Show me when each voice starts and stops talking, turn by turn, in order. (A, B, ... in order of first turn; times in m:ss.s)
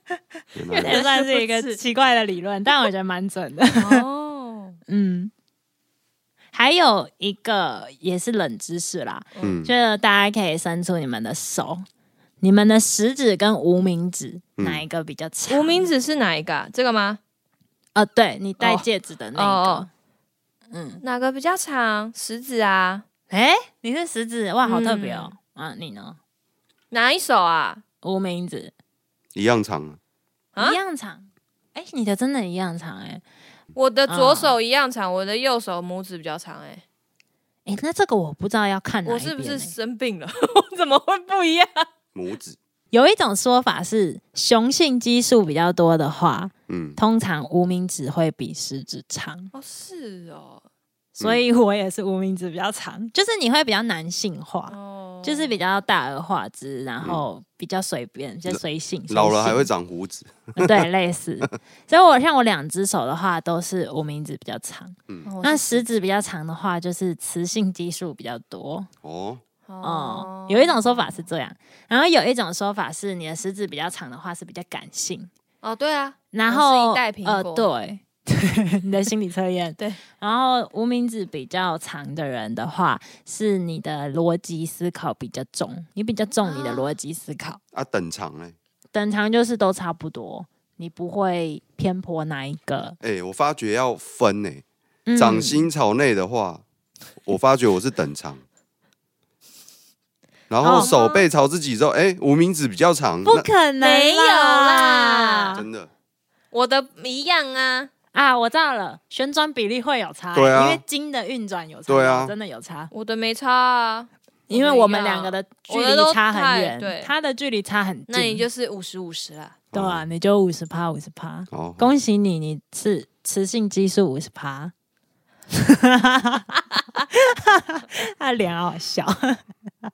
0:00.5-0:01.0 A
0:00.7-0:01.8 B
0:00.7-0:04.0 C
0:03.7-0:04.8 B
0:04.9-0:05.3 C
0:06.5-0:11.8 C
0:09.3-0:09.6 B
0:09.4-0:09.7 A
0:12.4-0:15.8 C
0:14.6-0:14.8 A
0:15.5-0:17.2 B
0:17.9-0:19.9 C
0:18.6-0:19.9 B
0:20.7-0:21.0 C
0:21.0-0:23.0 B
0:23.3-0:26.2 C
0:24.6-0:25.3 B
0:26.9-0:27.8 B
0:28.0-0:28.7 C
0:29.3-0:30.0 A
0:30.6-0:33.2 C
0:33.7-0:36.8 B
0:34.1-0:34.5 C
0:37.6-0:39.7 C
0:39.0-0:41.9 B
0:42.1-0:42.6 A
0:42.9-0:49.5 C
0:46.7-0:47.0 A
0:49.5-0:50.6 B
0:51.2-0:59.7 C
0:54.7-0:55.6 B
0:58.5-1:00.9 A
1:00.6-1:08.9 C
1:05.2-1:05.8 B
1:09.0-1:09.4 A
1:09.7-1:11.2 B
1:09.8-1:15.3 C
1:15.6-1:17.6 B
1:16.3-1:27.6 C
1:26.4-1:26.9 B
1:27.7-1:28.5 A
1:28.9-1:33.0 C
1:33.0-1:34.6 A
1:35.1-1:35.7 C
1:35.1-1:36.6 A
1:37.2-1:38.4 A
1:40.5-1:43.5 A
1:40.6-1:40.9 C
1:40.7-1:41.2 B
1:43.2-1:45.6 C
1:43.8-1:45.6 B
1:45.5-1:45.9 A
1:46.5-1:47.9 B
1:48.1-1:52.9 C
1:50.3-1:50.8 A
1:51.9-1:52.3 A
1:52.9-1:57.1 B
1:54.5-1:58.4 C
1:58.1-1:59.6 B
1:59.7-2:00.0 A
1:59.7-2:04.7 C
2:01.5-2:01.9 A
2:05.5-2:06.5 C
2:07.1-2:09.4 C